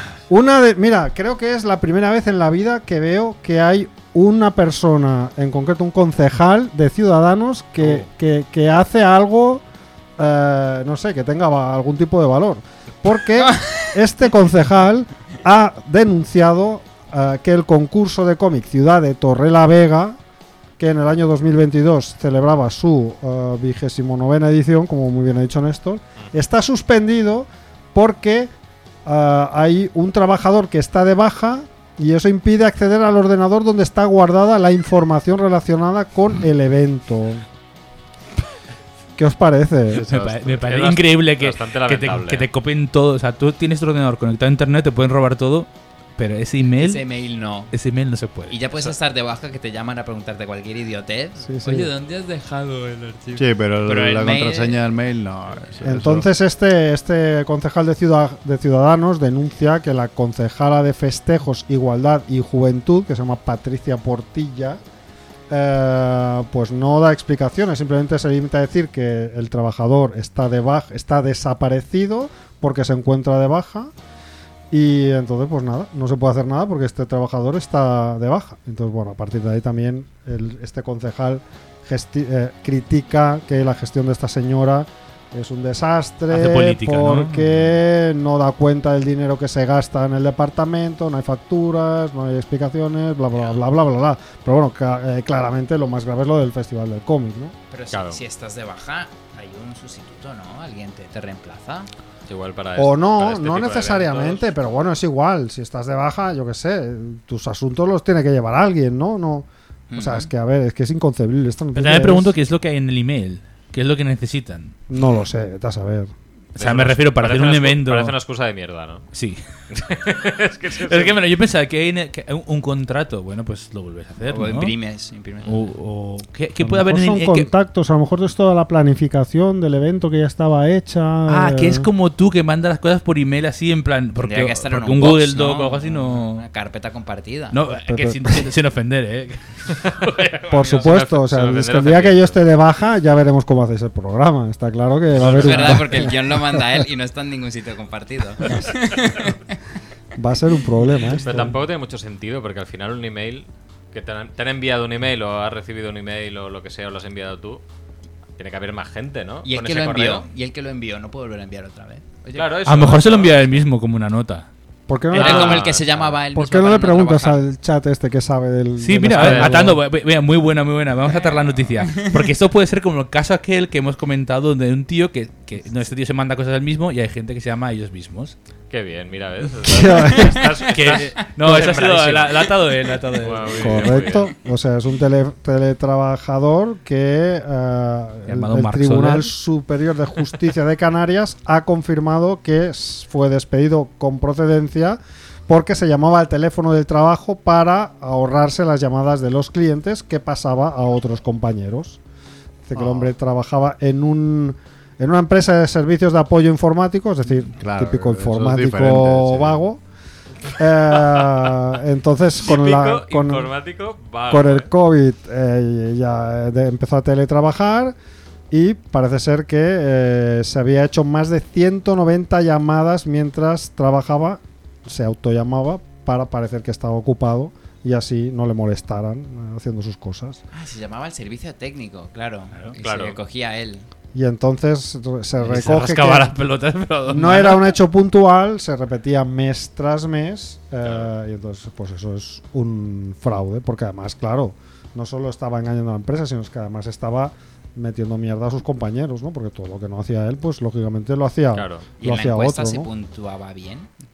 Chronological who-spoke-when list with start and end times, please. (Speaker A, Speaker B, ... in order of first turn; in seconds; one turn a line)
Speaker A: 0.3-9.6
Speaker A: 10.2-20.2
Speaker B: 13.5-13.9
Speaker A: 20.8-28.5
Speaker A: 29.1-37.5
Speaker A: 39.2-40.1
Speaker C: 39.9-40.7
Speaker D: 40.0-47.0
Speaker E: 40.7-42.5
Speaker B: 46.6-47.7
Speaker D: 47.7-48.6
Speaker B: 48.5-54.9
Speaker A: 51.4-51.9
Speaker C: 53.4-56.3
Speaker A: 55.8-64.8
Speaker A: 65.5-73.9
Speaker A: 74.7-97.5
Speaker D: 86.3-87.7
Speaker B: 97.7-101.9
Speaker E: 97.9-98.2
Speaker E: 102.3-104.5
Speaker A: 102.8-112.3
Speaker B: 109.9-110.3
Speaker D: 111.8-114.8
Speaker A: 114.9-116.1
Speaker D: 116.6-118.2
Speaker E: 116.6-119.1
Speaker D: 119.1-119.4
Speaker E: 119.7-121.2
Speaker D: 120.8-124.7
Speaker B: 124.3-125.8
Speaker D: 125.5-127.5
Speaker A: 126.6-131.9
Speaker D: 131.3-136.5
Speaker B: 134.2-137.6
Speaker D: 137.5-140.6
Speaker A: 137.9-138.4
Speaker A: 140.5-146.6
Speaker E: 140.5-142.4
Speaker E: 145.2-145.8
Speaker B: 145.2-149.5
Speaker A: 148.5-148.8
Speaker A: 150.2-151.6
Speaker E: 151.2-157.6
Speaker E: 158.4-160.3
Speaker B: 159.4-162.8
Speaker E: 162.3-163.7
Speaker D: 162.7-164.5
Speaker A: 164.9-165.7
Speaker B: 165.1-167.4
Speaker E: 165.1-165.9
Speaker A: 166.3-169.8
Speaker D: 168.8-178.3
Speaker E: 169.1-169.6
Speaker B: 171.2-172.1
Speaker E: 178.7-184.3
Speaker A: 179.7-180.6
Speaker D: 180.7-184.2
Speaker A: 183.6-202.0
Speaker D: 188.3-189.3
Speaker A: 202.7-209.8
Speaker C: 202.8-203.1
Speaker C: 207.5-209.6
Speaker A: 210.5-213.5
Speaker E: 212.4-214.7
Speaker A: 214.3-217.9
Speaker A: 218.5-230.4
Speaker B: 230.5-233.9
Speaker E: 232.8-233.2
Speaker A: 234.1-236.3
Speaker D: 235.4-237.8
Speaker A: 237.1-252.9
Speaker E: 240.8-241.1
Speaker E: 251.5-251.9
Speaker B: 252.0-253.9